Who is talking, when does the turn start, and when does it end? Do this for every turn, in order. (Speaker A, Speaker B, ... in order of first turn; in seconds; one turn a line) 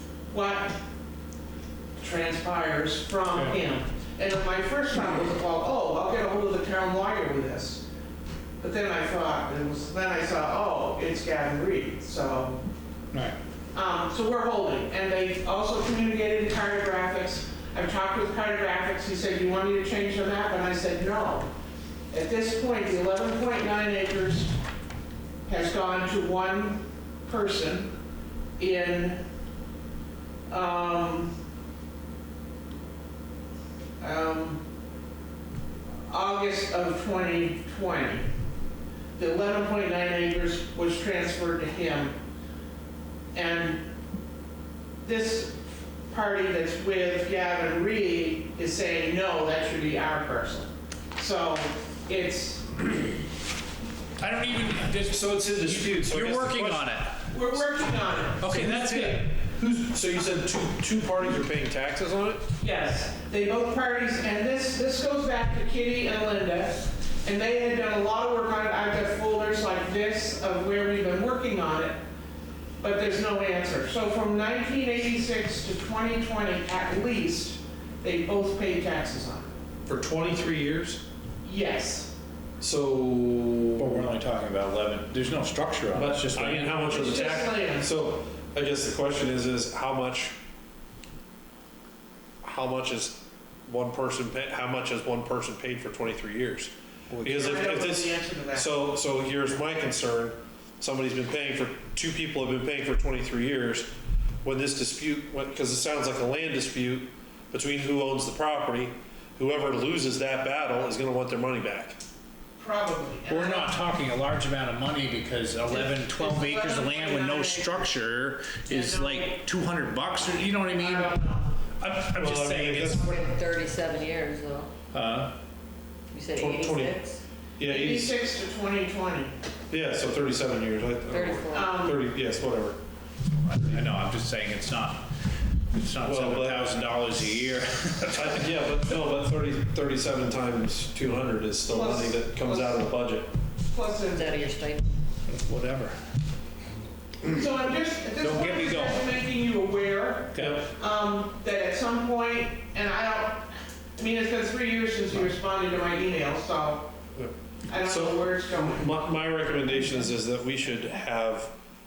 Speaker A: 0.3-0.8
Speaker A: 2.0-7.8
Speaker A: 8.6-12.6
Speaker A: 13.7-21.5
Speaker A: 22.1-24.6
Speaker A: 25.4-27.9
Speaker A: 28.6-29.2
Speaker A: 30.5-31.3
Speaker A: 34.0-34.6
Speaker A: 36.1-38.3
Speaker A: 39.2-42.1
Speaker A: 43.3-43.8
Speaker A: 45.0-45.6
Speaker A: 46.1-52.8
Speaker B: 54.2-57.2
Speaker C: 55.1-56.9
Speaker A: 57.3-59.2
Speaker B: 58.4-59.2
Speaker C: 58.6-62.5
Speaker A: 62.6-72.0
Speaker A: 72.8-79.5
Speaker C: 79.8-81.0
Speaker A: 81.4-82.1
Speaker C: 82.6-84.1
Speaker B: 83.8-86.9
Speaker C: 85.9-90.4
Speaker A: 86.9-87.9
Speaker C: 92.4-103.9
Speaker A: 97.3-98.7
Speaker C: 104.4-112.0
Speaker A: 112.6-113.8
Speaker B: 113.3-121.1
Speaker A: 115.7-117.9
Speaker A: 118.7-119.4
Speaker A: 120.7-121.5
Speaker B: 121.8-123.0
Speaker C: 122.1-123.1
Speaker D: 122.9-124.7
Speaker B: 124.9-125.3
Speaker D: 126.1-127.2
Speaker C: 126.3-127.0
Speaker C: 127.6-128.1
Speaker A: 127.6-129.3
Speaker C: 129.7-132.8
Speaker D: 131.1-131.6
Speaker A: 131.5-132.0
Speaker B: 133.5-135.1
Speaker B: 135.7-138.5
Speaker C: 136.0-136.8
Speaker C: 138.1-143.3
Speaker A: 141.7-142.8
Speaker A: 143.7-144.5
Speaker D: 144.2-144.8
Speaker B: 145.3-145.9
Speaker A: 147.3-156.9
Speaker B: 148.2-149.1
Speaker C: 150.4-150.6
Speaker A: 157.7-159.1
Speaker C: 157.8-161.5